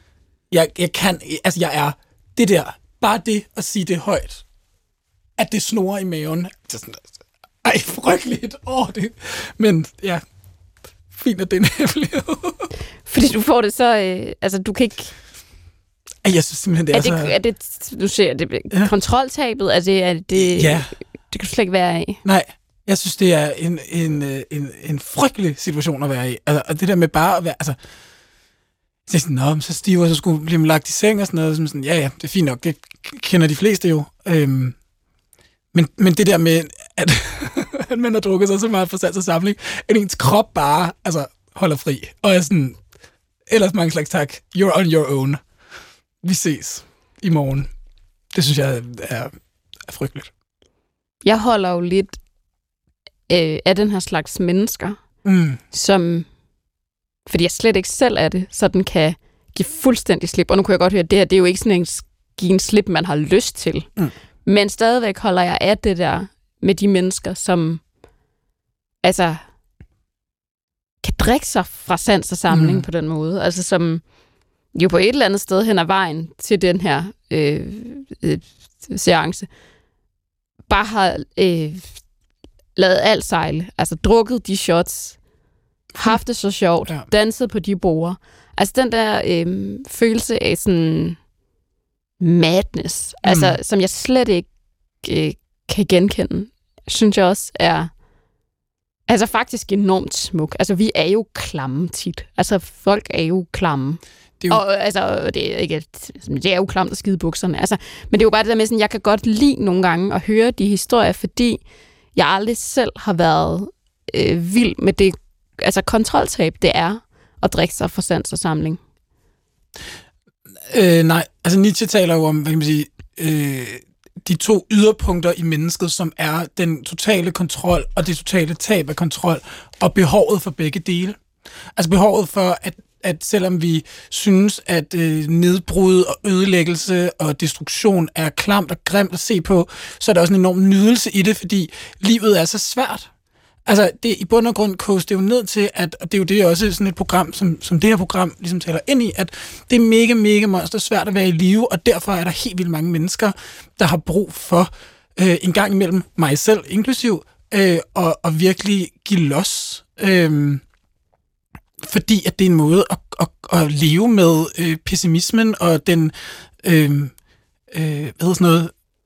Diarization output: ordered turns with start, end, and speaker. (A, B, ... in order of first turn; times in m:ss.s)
0:00.5-0:04.4 A
0:05.4-0:10.2 A
0:11.1-0:12.7 A
0:13.1-0:15.1 B
0:16.2-0:17.4 A
0:16.9-0:22.2 B
0:20.3-0:20.9 A
0:22.2-0:27.8 A
0:29.1-0:34.8 A
0:35.7-0:42.8 A
0:43.5-0:45.4 A
0:46.2-0:47.7 A
0:48.3-0:50.3 A
0:51.2-0:52.2 B
0:53.3-0:55.0 B
0:55.2-0:55.6 A
0:55.7-0:56.3 B
0:57.3-1:03.9 B
1:04.5-1:07.8 B
1:09.0-1:09.4 B
1:11.0-1:14.0 B
1:12.5-1:12.9 A
1:14.7-1:19.5 B
1:20.7-1:22.0 B
1:22.8-1:25.2 B
1:26.0-1:31.2 B
1:32.2-1:34.5 B
1:33.2-1:33.6 A
1:35.0-1:37.9 B
1:39.1-1:51.6 B
1:52.1-1:58.8 B
2:00.7-2:11.2 A
2:11.8-2:23.1 A
2:23.7-2:40.6 A
2:41.8-2:47.1 A
2:47.7-2:48.7 A